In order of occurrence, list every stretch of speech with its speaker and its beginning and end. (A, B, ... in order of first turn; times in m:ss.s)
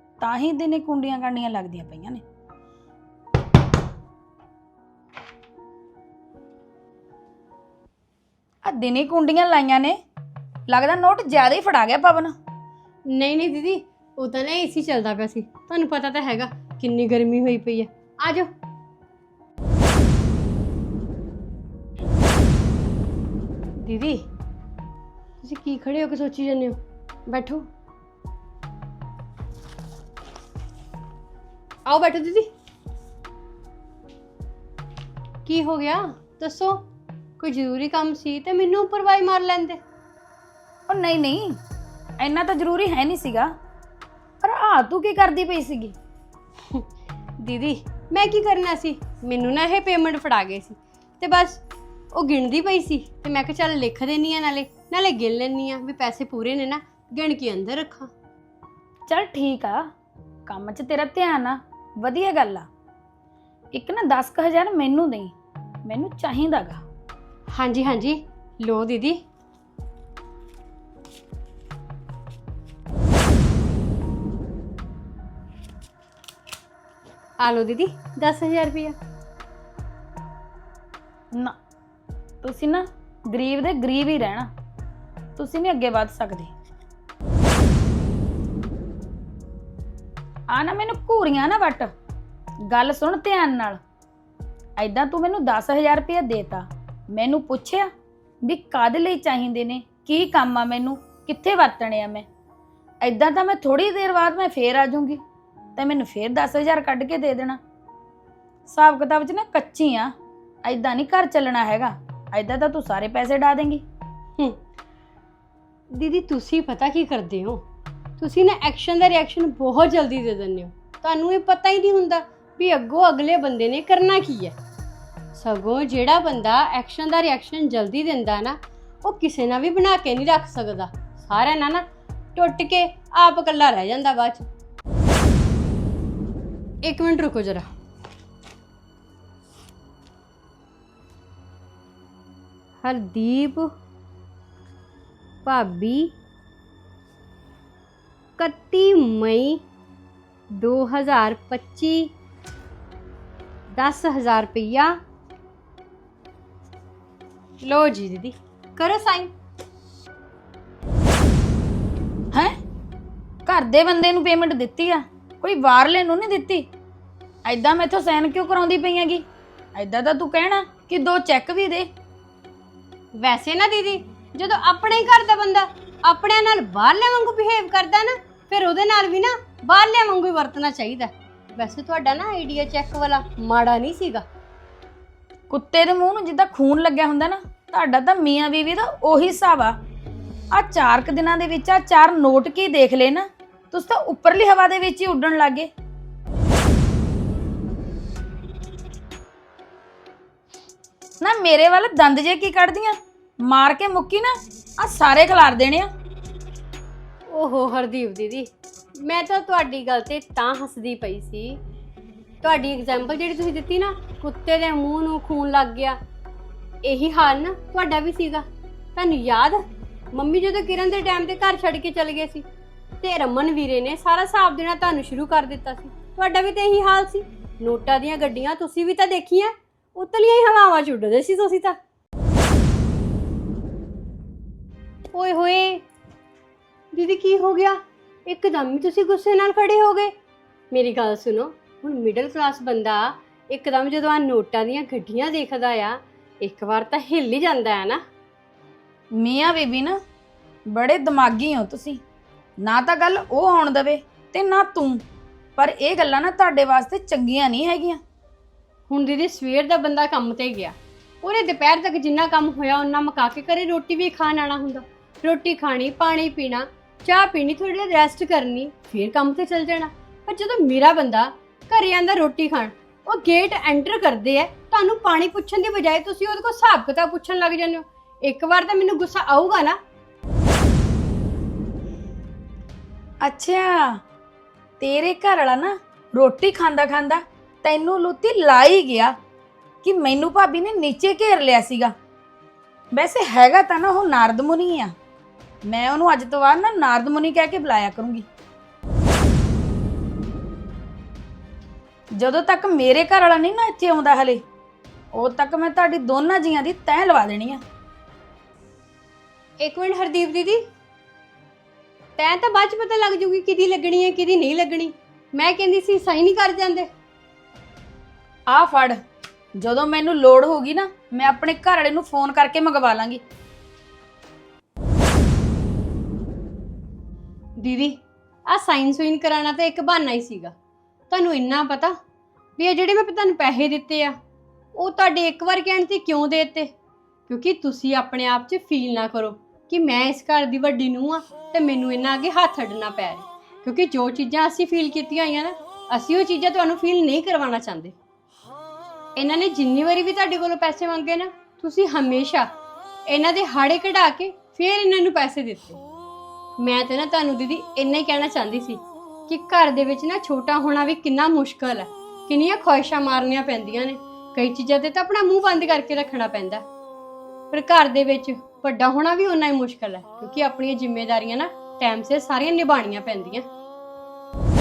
0:00.2-0:02.2 A
0:08.6-0:10.0 A
0:10.7-0:12.3 A
0:13.1-0:18.5 B
0:23.8-0:24.2 B
0:25.4-0:27.6 B
0:31.8-0:32.5 B
0:35.4-0:36.8 B
0:37.4-0:39.8 B
0:40.9-0:41.6 A
0:42.2-0:43.5 A
0:44.4-0:46.0 A
0:47.4-0:51.6 B
0:52.1-0:58.1 B
0:59.1-0:59.9 A
1:00.5-1:02.7 A
1:03.7-1:05.3 A
1:05.8-1:06.8 A
1:07.5-1:09.2 B
1:17.4-1:19.0 B
1:22.4-1:24.5 A
1:25.4-1:26.5 A
1:30.5-1:31.9 A
1:32.7-1:33.8 A
1:34.8-1:37.9 A
1:38.4-1:42.2 A
1:43.0-1:45.2 A
1:45.8-1:47.6 A
1:48.7-1:53.8 A
1:56.0-1:57.6 B
1:58.2-2:04.5 B
2:05.3-2:11.8 B
2:12.4-2:14.4 B
2:16.8-2:17.7 B
2:22.8-2:23.7 B
2:25.4-2:26.1 B
2:28.4-2:29.6 B
2:30.6-2:32.1 B
2:33.7-2:34.9 B
2:37.6-2:39.3 B
2:43.4-2:46.7 A
2:47.4-2:51.9 A
2:53.2-3:04.2 B
3:05.5-3:09.8 A
3:10.5-3:15.7 A
3:21.2-3:23.0 A
3:23.5-3:25.9 A
3:27.3-3:28.5 B
3:29.0-3:31.6 B
3:32.4-3:36.0 B
3:36.8-3:38.4 B
3:39.0-3:39.6 B
3:40.1-3:42.4 B
3:43.0-3:51.8 B
3:55.1-3:55.8 B
3:56.9-4:00.1 B
4:00.7-4:08.0 B
4:09.2-4:10.0 A
4:10.7-4:12.0 A
4:12.6-4:15.0 A
4:15.6-4:18.0 A
4:18.9-4:39.8 B
4:43.2-4:44.0 A
4:44.8-4:49.1 A
4:49.8-4:51.9 A
4:52.9-4:54.9 A
4:55.7-4:58.2 A
5:02.2-5:04.4 A
5:05.1-5:07.6 A
5:09.6-5:10.6 B
5:12.2-5:16.9 B
5:18.5-5:19.0 A
5:19.6-5:23.2 A
5:27.6-5:30.5 B
5:31.1-5:31.9 B
5:32.6-5:34.1 B
5:34.8-5:36.7 B
5:37.3-5:47.9 B
5:49.2-5:52.5 B
5:53.1-5:55.8 B
5:56.6-6:06.6 B
6:07.5-6:13.4 B